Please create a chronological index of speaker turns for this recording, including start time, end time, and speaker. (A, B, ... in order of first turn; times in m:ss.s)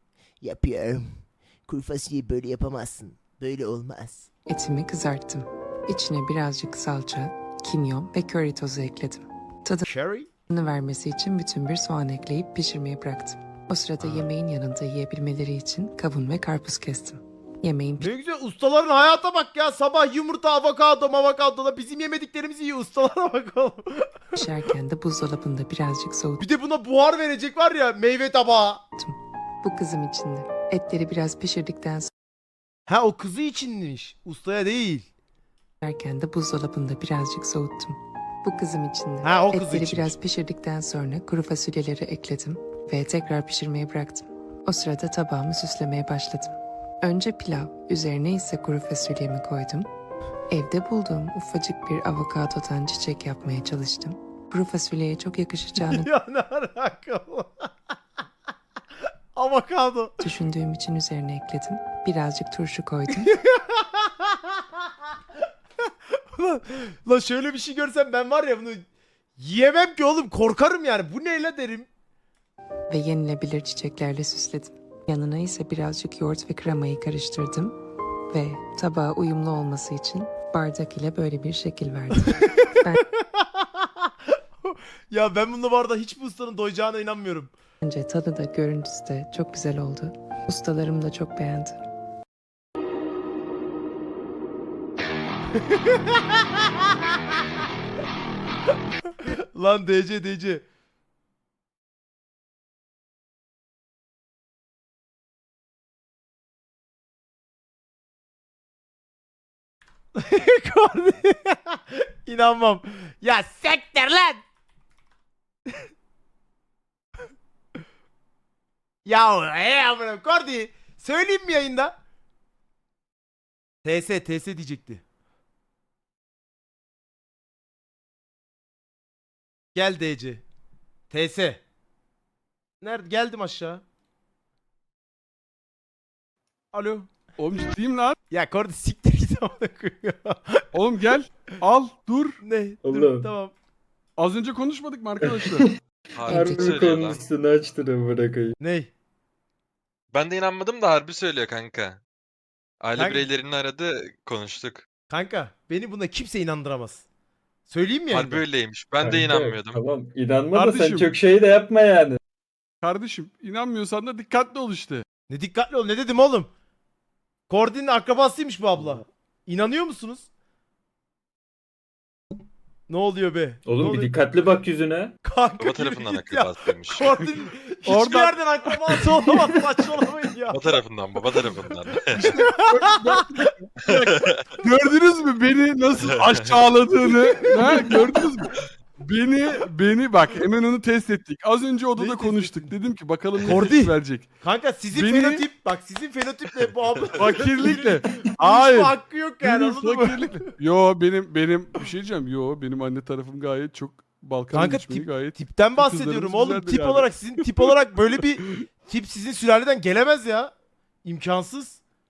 0:00.4-0:01.1 A
0:01.7-0:04.3 A
0:04.5-0:09.9 B
0:09.8-0:10.3 A
0:10.5-0:18.1 B
0:14.0-0:14.3 C
0:18.0-0:24.3 A
0:24.4-0:26.4 B
0:26.4-0:28.8 A
0:29.0-0:32.1 B
0:32.9-0:35.1 A
0:35.8-0:49.9 B
0:39.2-0:40.1 A
0:50.5-0:56.1 B
0:55.8-0:57.7 A
0:59.3-1:00.2 A
1:00.2-1:03.3 B
1:03.2-1:04.6 A
1:06.3-1:08.8 A
1:09.4-1:11.9 A
1:12.9-1:17.7 B
1:18.3-1:23.0 B
1:22.3-1:24.1 A
1:24.6-1:27.5 A
1:27.8-1:31.8 B
1:35.7-1:36.8 A
1:39.2-1:40.6 A
1:50.1-1:54.4 A
1:59.0-2:02.0 A
2:03.8-2:05.0 A
2:09.7-2:10.4 A
2:11.1-2:11.6 A
2:12.8-2:13.8 A
2:16.7-2:17.1 A
2:17.4-2:18.2 D
2:18.3-2:20.7 A
2:20.8-2:22.4 D
2:22.4-2:23.6 A
2:22.8-2:23.3 E
2:24.2-2:25.6 D
2:25.2-2:28.6 E
2:26.1-2:27.2 C
2:26.3-2:26.8 B
2:28.6-2:28.9 A
2:30.1-2:32.0 C
2:32.8-2:34.8 C
2:33.0-2:33.3 A
2:35.1-2:37.0 A
2:37.7-2:38.4 A
2:38.1-2:39.8 C
2:39.0-2:42.2 E
2:40.5-2:41.1 D
2:42.8-2:45.0 D
2:45.3-2:46.5 A
2:47.5-2:50.3 A
2:52.9-2:54.2 A
2:53.6-2:55.2 E
2:55.2-3:00.6 A
2:55.6-2:57.1 C
2:57.9-2:59.0 D
3:00.5-3:02.2 C
3:02.1-3:03.4 A
3:02.2-3:14.3 D
3:03.9-3:04.4 C
3:06.1-3:06.6 C
3:07.6-3:08.1 A
3:12.0-3:12.7 A
3:13.4-3:20.5 A
3:14.9-3:15.4 D
3:17.2-3:27.1 D
3:24.5-3:30.5 A
3:31.0-3:31.8 A